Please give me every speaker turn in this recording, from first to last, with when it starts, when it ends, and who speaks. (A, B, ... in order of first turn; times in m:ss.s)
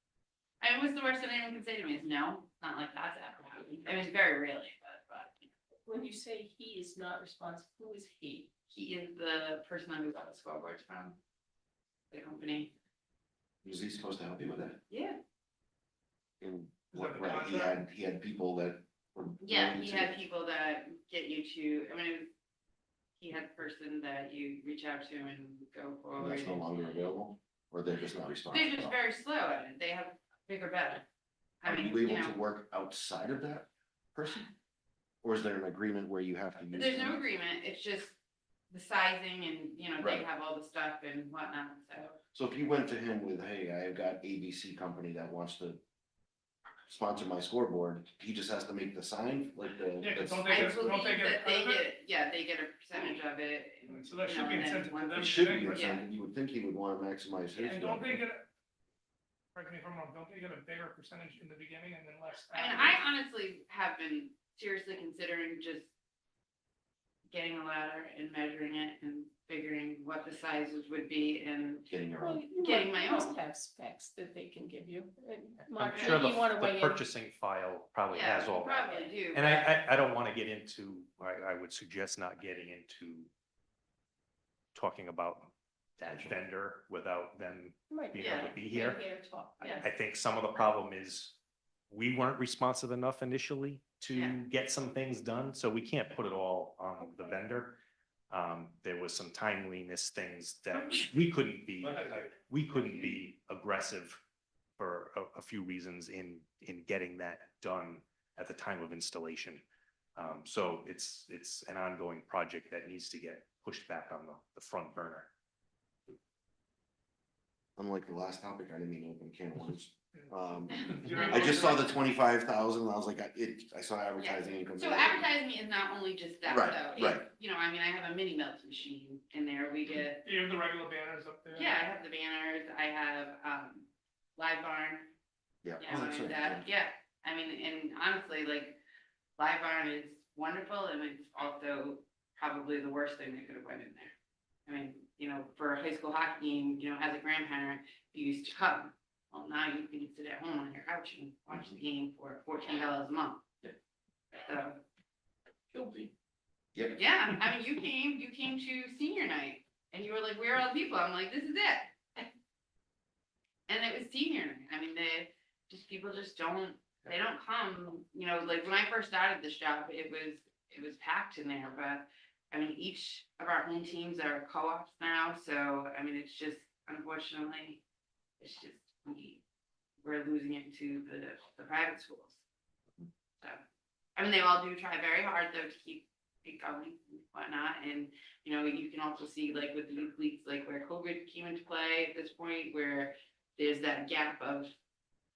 0:00.6-0:05.4 A
0:05.8-0:08.5 B
0:08.7-0:11.2 A
0:12.1-0:12.7 A
0:13.6-0:14.8 C
0:14.9-0:15.2 A
0:16.4-0:20.2 C
0:16.9-0:17.8 D
0:19.4-0:22.3 A
0:23.2-0:26.6 A
0:26.2-0:29.0 C
0:28.5-0:31.0 A
0:31.6-0:32.4 A
0:31.6-0:34.4 C
0:35.2-0:37.2 C
0:36.7-0:38.2 A
0:38.7-0:42.2 A
0:40.0-0:40.2 C
0:42.3-0:45.8 C
0:46.9-0:50.7 C
0:50.0-0:51.9 D
0:50.4-0:56.0 A
0:53.9-0:55.9 D
0:55.1-0:58.2 C
0:57.6-0:58.4 D
0:59.5-1:03.0 D
1:02.5-1:05.9 A
1:07.3-1:11.9 A
1:11.9-1:12.4 C
1:12.2-1:17.1 B
1:12.5-1:13.4 A
1:15.7-1:23.3 E
1:15.9-1:16.4 A
1:18.1-1:19.8 A
1:24.7-1:29.1 E
1:27.9-1:29.9 B
1:28.2-1:28.5 A
1:29.6-1:31.4 E
1:31.9-1:37.8 E
1:38.3-1:44.2 E
1:44.8-1:49.6 E
1:50.2-1:55.3 E
1:57.8-2:05.2 C
2:00.1-2:01.9 D
2:00.8-2:01.8 A
2:04.2-2:10.2 A
2:06.5-2:07.2 C
2:10.2-2:11.8 D
2:11.5-2:15.1 A
2:15.6-2:16.6 C
2:15.8-2:18.8 A
2:19.4-2:24.1 A
2:24.7-2:33.4 A
2:34.3-2:34.8 A
2:36.9-2:42.2 A
2:43.7-2:57.8 A
2:58.4-2:59.4 A
3:00.0-3:02.4 A
3:04.2-3:14.7 A